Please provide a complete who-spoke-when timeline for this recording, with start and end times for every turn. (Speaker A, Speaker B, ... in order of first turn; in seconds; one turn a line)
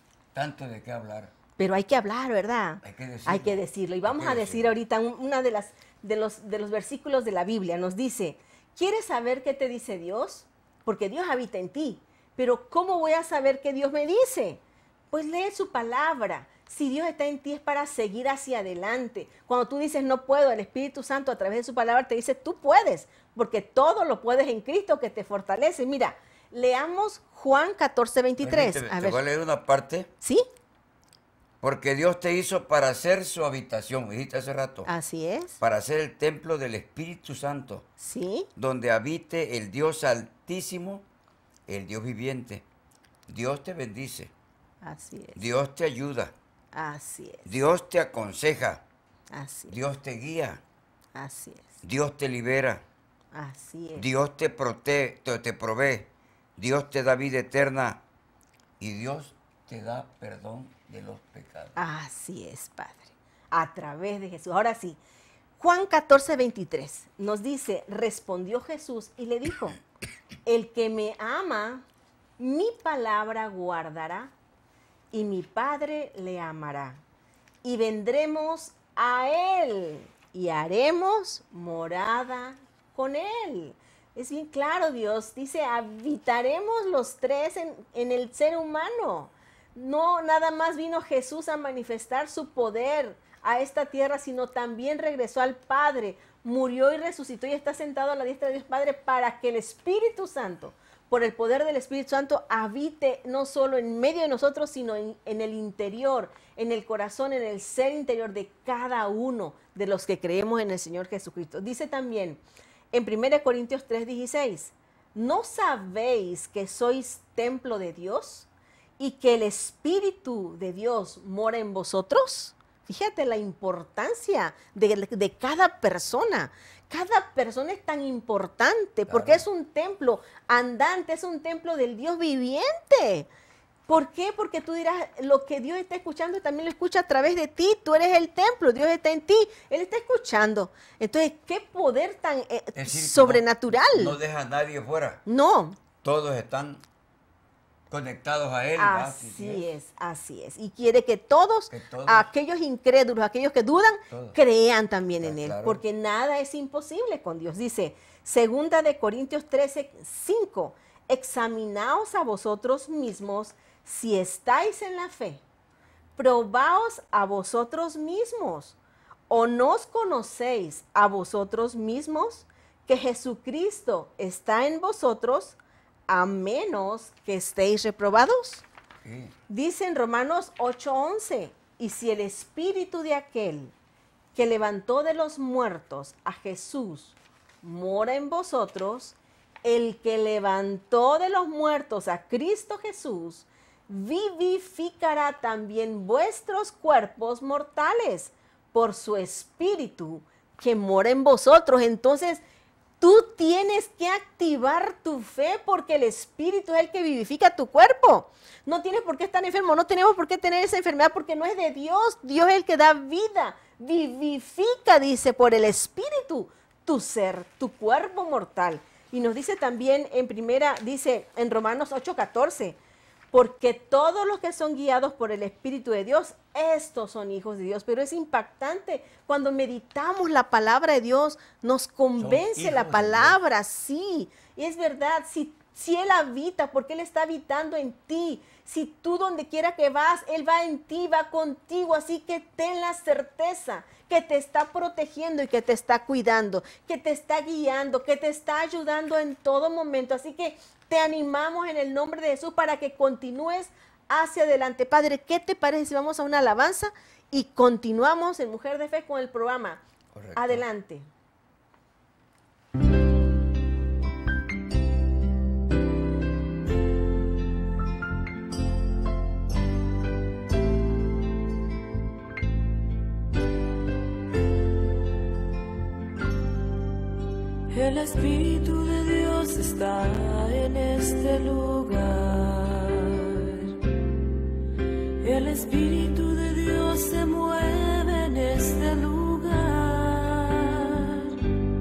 Speaker A: 0.3-1.3
Speaker B: 1.6-14.6
Speaker A: 2.8-4.7
Speaker B: 15.1-29.2
Speaker A: 28.4-30.1
Speaker A: 31.6-34.9
Speaker B: 34.9-35.6
Speaker A: 35.6-37.9
Speaker B: 38.0-38.5
Speaker A: 38.6-41.1
Speaker A: 41.7-42.6
Speaker A: 43.3-44.3
Speaker B: 44.8-45.4
Speaker A: 45.4-46.3
Speaker B: 46.7-47.5
Speaker A: 47.5-48.8
Speaker B: 49.3-49.8
Speaker A: 49.7-50.6
Speaker B: 51.1-51.8
Speaker A: 51.8-52.8
Speaker B: 53.3-54.1
Speaker A: 54.0-58.0
Speaker A: 58.8-61.8
Speaker B: 61.8-65.0
Speaker B: 65.6-69.8
Speaker B: 70.5-71.8
Speaker B: 72.4-74.3
Speaker B: 75.1-77.0
Speaker B: 77.6-118.5
Speaker B: 119.0-133.3
Speaker A: 129.1-129.4
Speaker B: 133.9-144.2
Speaker A: 142.8-145.2
Speaker B: 145.3-145.8
Speaker A: 146.0-146.8
Speaker A: 147.9-149.7
Speaker B: 148.8-165.4
Speaker A: 151.7-152.3
Speaker A: 154.1-154.4
Speaker A: 155.2-155.8
Speaker B: 166.2-168.8
Speaker B: 169.3-175.6
Speaker B: 176.1-178.7
Speaker A: 179.0-179.3
Speaker B: 179.5-183.7
Speaker B: 184.3-202.4
Speaker B: 203.0-222.8
Speaker B: 223.3-259.8
Speaker A: 232.2-233.4
Speaker A: 260.1-260.6
Speaker B: 260.4-261.1
Speaker C: 277.7-283.8
Speaker C: 285.2-291.4